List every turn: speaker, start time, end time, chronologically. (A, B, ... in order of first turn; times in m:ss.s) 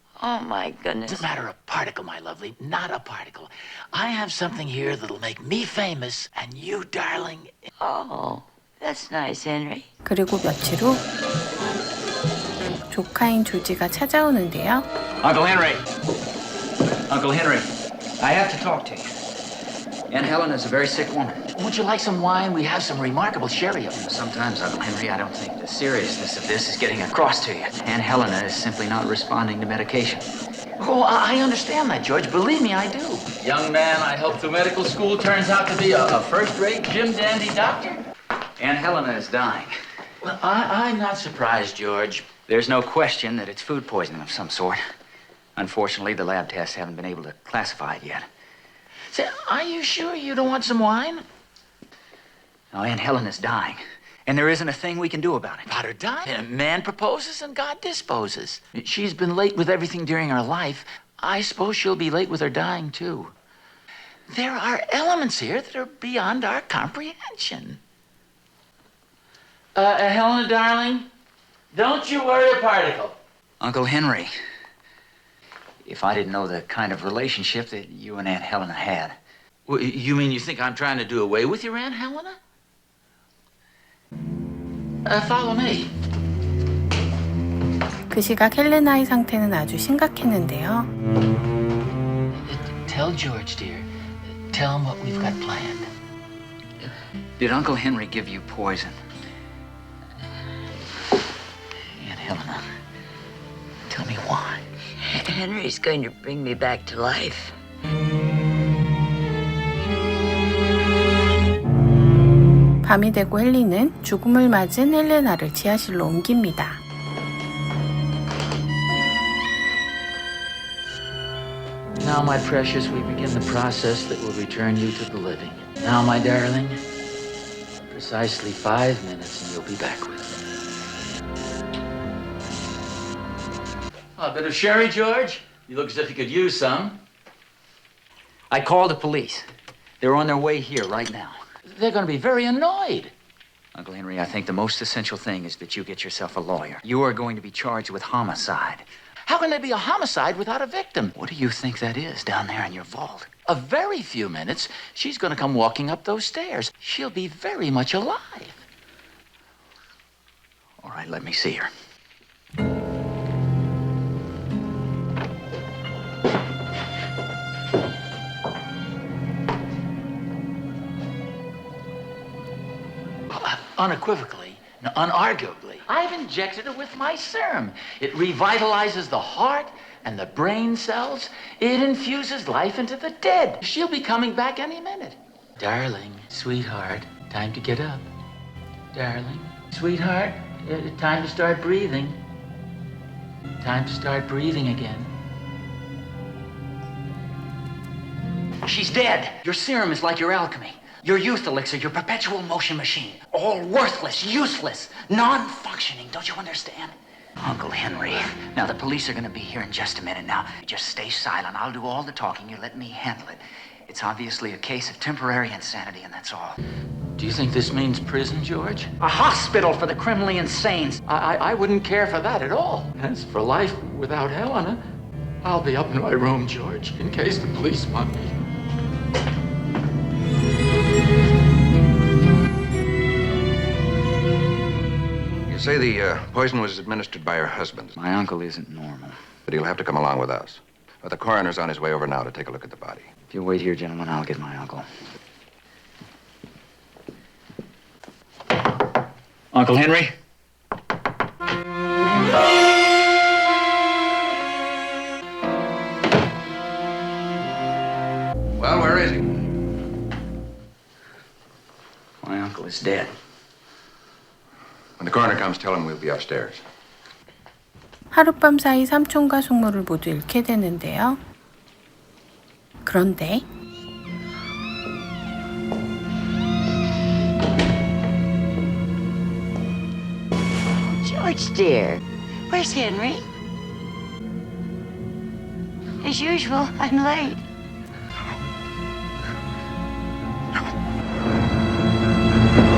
0:00.2-0:01.3 A
0:01.1-0:07.6 B
0:07.8-0:09.9 A
0:10.0-0:11.0 C
0:12.9-0:14.9 C
0:15.2-0:15.8 D
0:17.1-0:19.1 D
0:20.1-0:21.4 D
0:21.6-0:24.0 B
0:24.0-0:30.3 D
0:30.8-0:38.0 B
0:38.6-0:39.7 D
0:40.2-0:42.4 B
0:42.4-0:44.8 D
0:45.6-0:48.3 D
0:49.1-0:51.2 B
0:52.7-0:55.7 D
0:55.7-1:03.3 B
1:04.3-1:07.8 B
1:09.8-1:11.1 B
1:11.7-1:13.2 B
1:13.6-1:14.3 D
1:15.8-1:19.2 D
1:19.7-1:22.4 B
1:25.1-1:25.9 B
1:28.1-1:30.9 C
1:32.3-1:33.9 B
1:34.5-1:35.9 B
1:37.4-1:39.0 D
1:41.9-1:42.6 B
1:43.9-1:44.6 B
1:45.1-1:47.6 A
1:52.8-1:56.8 C
2:02.0-2:06.8 B
2:07.9-2:10.3 B
2:14.2-2:17.0 B
2:18.5-2:19.5 D
2:20.0-2:21.4 D
2:21.6-2:23.1 B
2:23.7-2:28.8 D
2:29.2-2:31.2 B
2:31.2-2:33.3 D
2:33.4-2:38.6 B
2:40.8-2:41.1 D
2:40.8-2:41.7 B
2:53.3-3:08.1 B
3:08.9-3:12.2 B
3:13.6-3:15.1 B
3:18.7-3:19.2 D
3:18.7-3:24.9 B
3:21.4-3:21.8 D
3:23.1-3:26.7 D
3:26.2-3:26.9 B
3:27.4-3:28.4 B
3:27.5-3:36.6 D
3:37.2-3:39.0 B
3:39.0-3:41.0 D
3:41.1-3:44.8 B
3:45.4-3:48.4 B
3:55.5-3:57.9 E
3:58.0-3:59.2 D
3:59.5-4:03.1 E
4:03.3-4:04.9 D
4:09.5-4:10.1 D
4:18.6-4:19.2 E
4:22.2-4:23.1 D
4:25.0-4:26.6 E
4:28.1-4:31.2 C
4:32.8-4:33.4 C
4:40.8-4:43.3 A
4:46.0-4:47.4 A